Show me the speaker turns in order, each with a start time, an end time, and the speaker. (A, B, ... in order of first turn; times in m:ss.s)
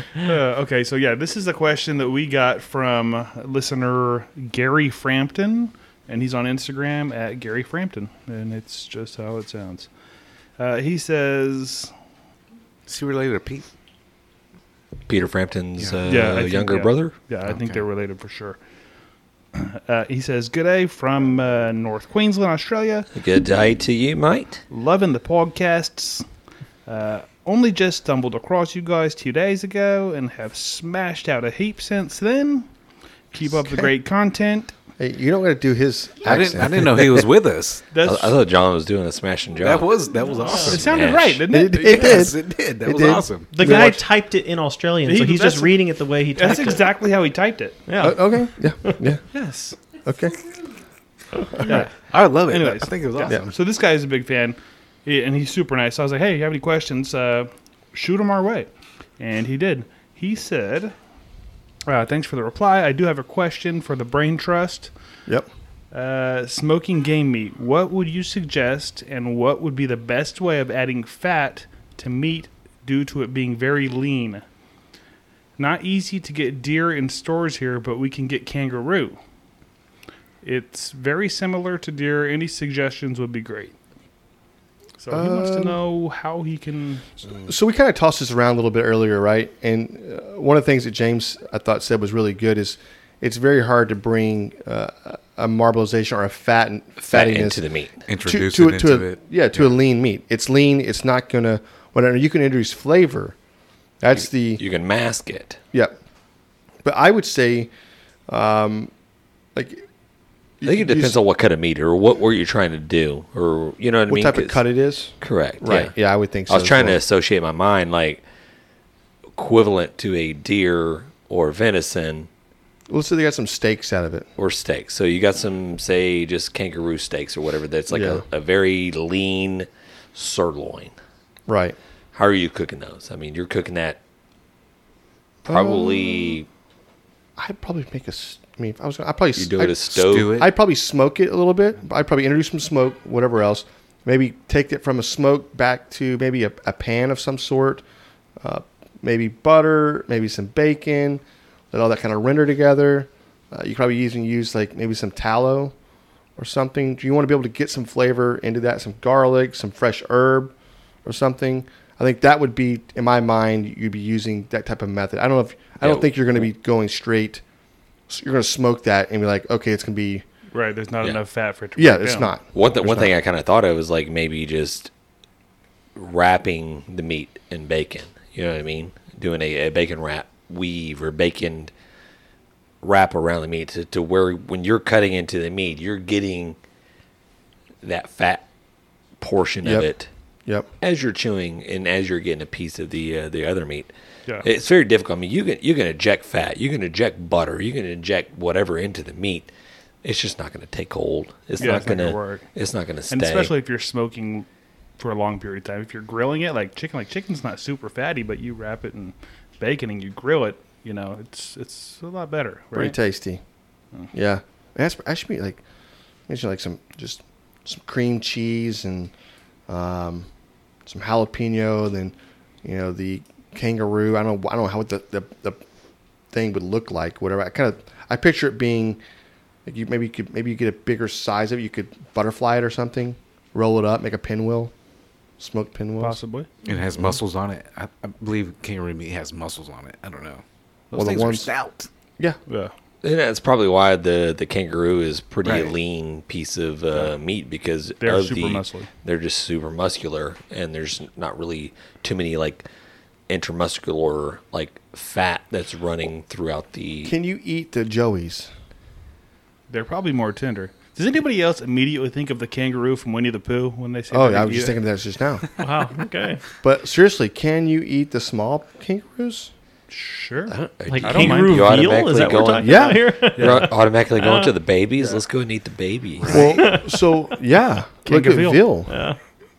0:00.2-0:09.9 A
0:10.6-0:11.9 A
0:12.9-0:13.6 B
0:15.1-0:17.2 C
0:15.8-0:16.0 B
0:16.0-0:18.6 A
0:17.4-0:17.8 B
0:19.5-0:23.1 A
0:23.1-0:24.6 C
0:24.7-0:26.2 A
0:26.8-0:32.7 A
0:33.3-0:34.7 A
0:35.0-0:37.3 D
0:36.2-0:37.8 B
0:37.9-0:38.4 A
0:38.0-0:39.9 C
0:39.6-0:41.2 B
0:40.4-0:40.8 E
0:40.4-0:42.3 A
0:40.7-0:41.4 C
0:41.5-0:44.0 D
0:41.8-0:43.8 B
0:43.5-0:47.0 E
0:45.0-0:45.8 A
0:46.3-0:47.8 A
0:47.9-0:49.7 E
0:48.0-0:49.2 D
0:50.0-0:50.4 D
0:51.4-0:51.8 E
0:51.6-1:00.9 A
0:52.0-0:53.6 B
1:01.8-1:04.9 A
1:05.9-1:14.4 A
1:15.6-1:19.2 A
1:20.4-1:23.8 A
1:25.0-1:27.2 A
1:25.1-1:25.8 D
1:27.4-1:37.6 D
1:37.0-1:37.9 C
1:38.1-1:39.2 B
1:38.2-1:43.4 D
1:44.0-1:44.6 D
1:44.1-1:45.6 C
1:46.8-1:47.7 D
1:48.3-1:48.9 D
1:49.5-1:49.9 D
1:50.6-1:51.2 D
1:50.6-1:54.6 C
1:54.1-1:57.0 D
1:55.2-1:55.9 C
1:56.5-1:58.2 C
1:59.4-2:02.3 C
2:02.9-2:04.3 D
2:04.4-2:10.9 C
2:07.9-2:08.2 D
2:11.5-2:11.8 D
2:12.1-2:14.0 C
2:15.4-2:16.4 D
2:15.5-2:16.5 C
2:17.4-2:27.8 D
2:19.4-2:20.4 C
2:20.0-2:20.5 B
2:28.4-2:35.7 D
2:36.4-2:47.4 D
2:45.8-2:46.3 C
2:48.1-2:50.2 D
2:50.5-2:52.3 A
2:51.8-2:53.1 D
2:52.5-2:54.9 C
2:56.0-3:01.7 C
3:02.8-3:06.6 C
3:07.8-3:08.4 C
3:09.2-3:10.1 C
3:10.8-3:13.9 C
3:14.4-3:19.5 C
3:20.0-3:23.5 C
3:21.6-3:22.4 A
3:23.1-3:24.5 A
3:25.0-3:33.0 A
3:32.7-3:33.4 D
3:34.1-3:35.6 D
3:36.3-3:39.1 D
3:39.7-3:40.3 D
3:40.8-3:45.6 D
3:46.3-3:49.0 D
3:49.6-3:54.7 D
3:55.4-3:56.2 D
3:56.0-3:56.5 A
3:56.6-4:01.9 B
4:00.9-4:01.5 D
4:02.5-4:02.7 A
4:03.0-4:12.6 C
4:05.4-4:05.7 B
4:08.0-4:08.9 A
4:13.3-4:17.1 C
4:17.0-4:18.5 D
4:19.7-4:24.8 A
4:24.1-4:25.5 D
4:25.6-4:26.4 E
4:26.6-4:29.5 D
4:29.9-4:31.8 A
4:30.5-4:36.4 C
4:30.9-4:34.5 E
4:32.6-4:33.0 D
4:33.4-4:33.7 A
4:36.3-4:38.9 D
4:36.3-4:37.1 E
4:38.1-4:38.6 A
4:38.9-4:39.2 E